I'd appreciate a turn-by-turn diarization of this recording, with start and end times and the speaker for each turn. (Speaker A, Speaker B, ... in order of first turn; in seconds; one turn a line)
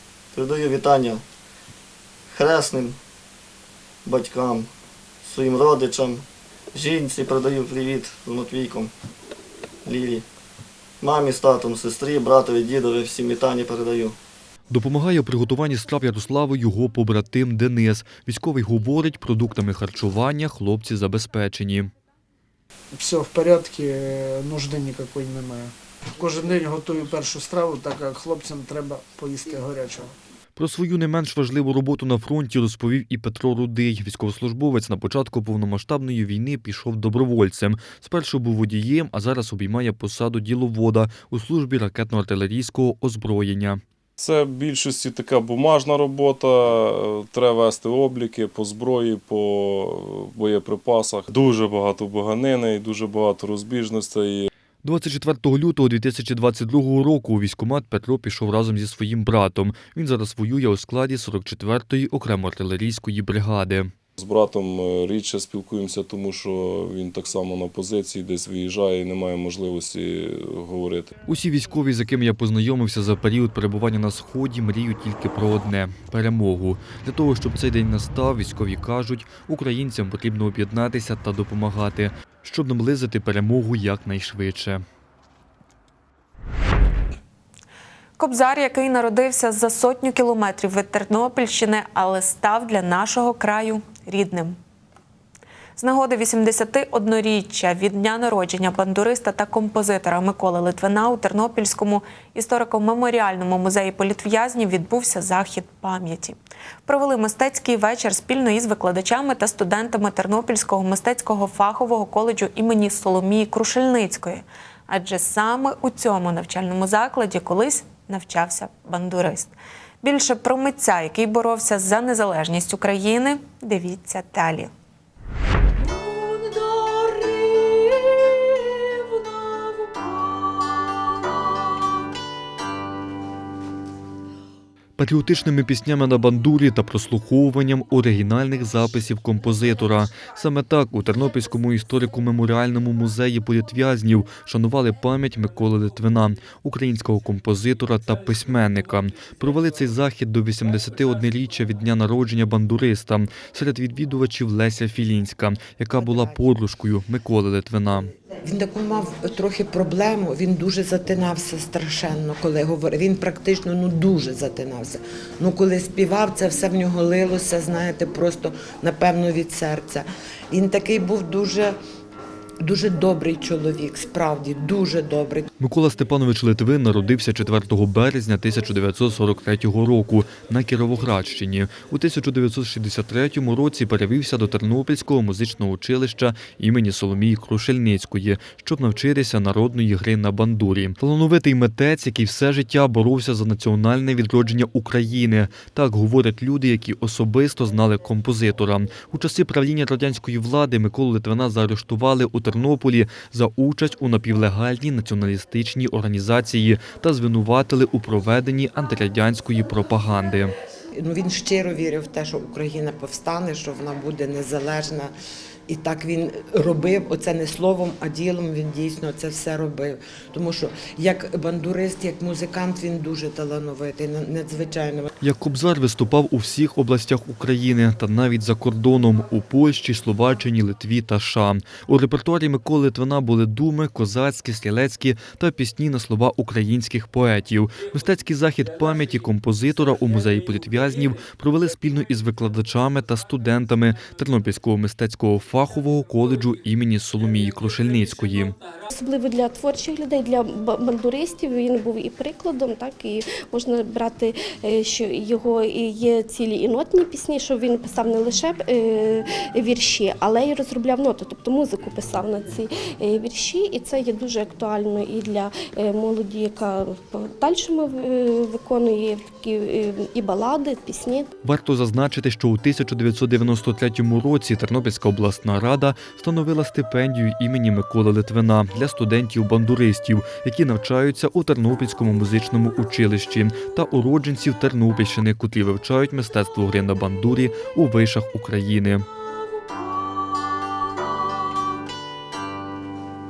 Speaker A: 0.3-1.2
Speaker A: 2.3-3.0
Speaker A: 4.1-4.7
Speaker A: 5.2-8.9
Speaker A: 9.8-10.2
Speaker A: 11.0-14.2
Speaker B: 14.7-21.9
Speaker C: 22.9-30.1
Speaker B: 30.6-43.8
Speaker D: 44.2-54.5
Speaker B: 54.8-63.9
Speaker D: 64.2-71.1
Speaker B: 71.3-84.8
Speaker E: 88.2-94.6
Speaker E: 95.8-124.7
Speaker B: 135.0-158.1
Speaker F: 156.0-156.4
Speaker F: 158.4-171.8
Speaker F: 172.6-175.5
Speaker B: 175.6-210.5
Speaker F: 211.0-215.1
Speaker F: 215.7-225.1
Speaker B: 225.2-248.6
Speaker G: 248.9-271.3
Speaker B: 271.4-289.1